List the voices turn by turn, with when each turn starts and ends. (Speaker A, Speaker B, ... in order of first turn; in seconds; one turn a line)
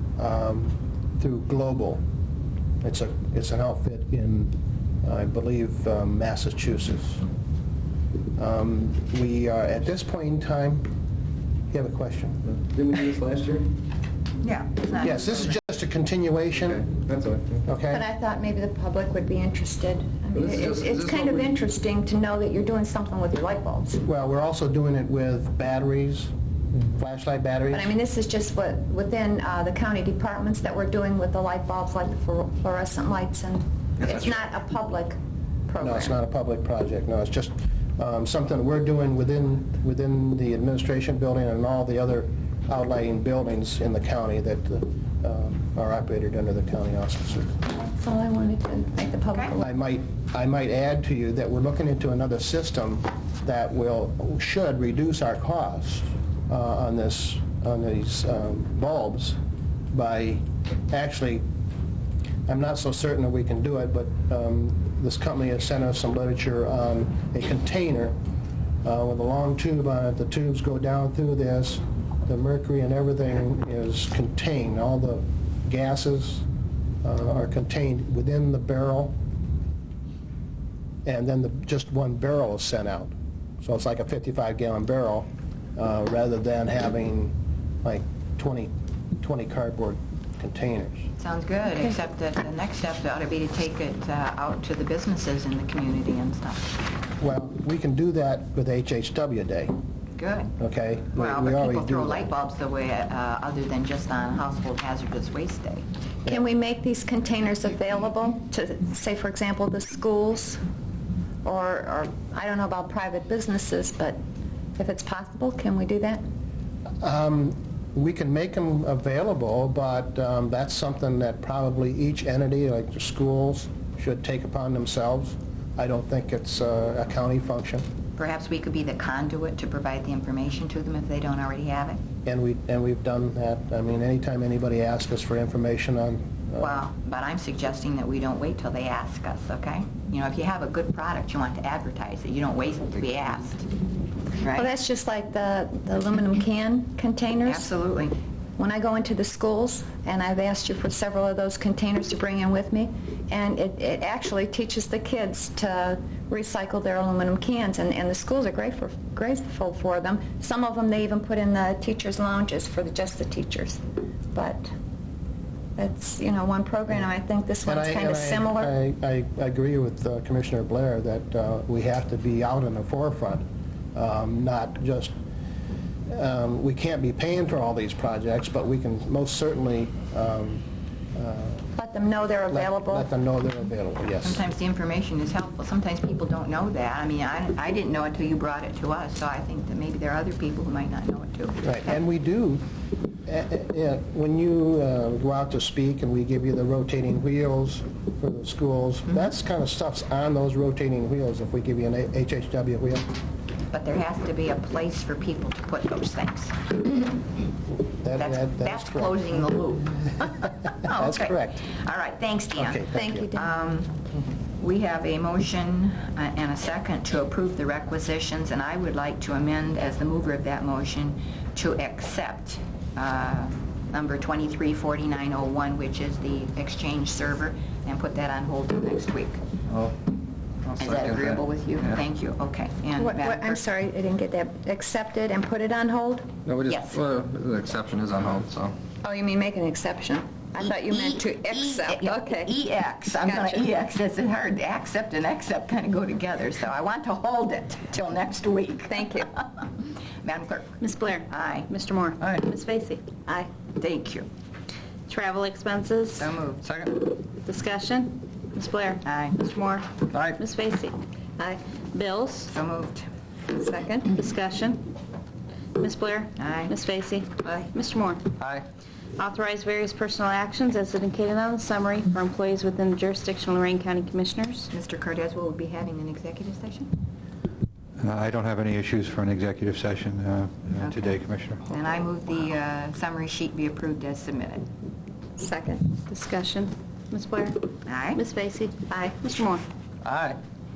Speaker A: 0.2-2.0
Speaker A: 2.8-7.2
Speaker A: 8.4-10.8
Speaker A: 11.7-12.4
Speaker B: 12.6-13.7
Speaker C: 14.4-15.6
Speaker A: 15.0-16.9
Speaker B: 16.6-17.6
Speaker A: 17.6-18.0
Speaker D: 17.9-24.0
Speaker B: 20.3-21.5
Speaker A: 24.0-27.9
Speaker D: 27.7-36.1
Speaker A: 35.8-47.5
Speaker D: 47.7-49.7
Speaker A: 49.5-59.4
Speaker A: 59.9-61.4
Speaker A: 62.5-68.2
Speaker A: 68.8-76.5
Speaker A: 77.0-79.2
Speaker A: 81.0-91.1
Speaker C: 91.2-96.7
Speaker A: 97.2-99.7
Speaker C: 100.2-100.5
Speaker A: 100.6-102.3
Speaker C: 101.1-105.8
Speaker D: 106.2-110.6
Speaker D: 111.4-114.2
Speaker D: 114.8-116.2
Speaker A: 117.0-127.9
Speaker C: 128.2-132.0
Speaker A: 132.2-136.8
Speaker C: 136.6-143.7
Speaker C: 144.4-144.7
Speaker D: 144.5-147.7
Speaker C: 147.4-148.2
Speaker D: 148.6-163.8
Speaker D: 164.3-164.7
Speaker D: 165.8-168.7
Speaker A: 167.7-175.1
Speaker A: 176.1-181.7
Speaker D: 181.8-183.1
Speaker A: 182.5-184.4
Speaker C: 184.2-191.6
Speaker A: 191.6-192.6
Speaker A: 193.2-203.1
Speaker C: 203.7-206.9
Speaker A: 207.9-209.2
Speaker C: 208.2-213.9
Speaker A: 210.8-211.7
Speaker A: 212.6-213.3
Speaker D: 212.9-213.5
Speaker C: 214.6-229.4
Speaker B: 229.7-229.9
Speaker B: 230.7-231.9
Speaker C: 230.8-233.6
Speaker D: 233.0-236.3
Speaker B: 236.4-238.7
Speaker C: 236.6-237.0
Speaker D: 239.0-242.5
Speaker C: 240.9-249.7
Speaker D: 243.2-243.6
Speaker D: 248.9-249.3
Speaker C: 250.2-251.7
Speaker E: 250.8-253.0
Speaker C: 253.8-254.3
Speaker E: 255.1-256.3
Speaker C: 256.1-256.7
Speaker B: 256.6-257.1
Speaker E: 257.4-260.9
Speaker C: 259.0-259.4
Speaker B: 260.1-260.4
Speaker E: 261.9-262.5
Speaker C: 262.5-263.0
Speaker D: 263.5-264.1
Speaker E: 264.1-264.9
Speaker E: 265.8-268.2
Speaker C: 266.4-266.8
Speaker B: 268.4-268.6
Speaker E: 269.2-274.7
Speaker C: 274.7-276.9
Speaker F: 278.0-281.7
Speaker C: 280.8-284.7
Speaker D: 285.4-285.9
Speaker E: 286.1-289.6
Speaker C: 287.9-288.2
Speaker D: 288.9-289.1
Speaker B: 290.0-290.4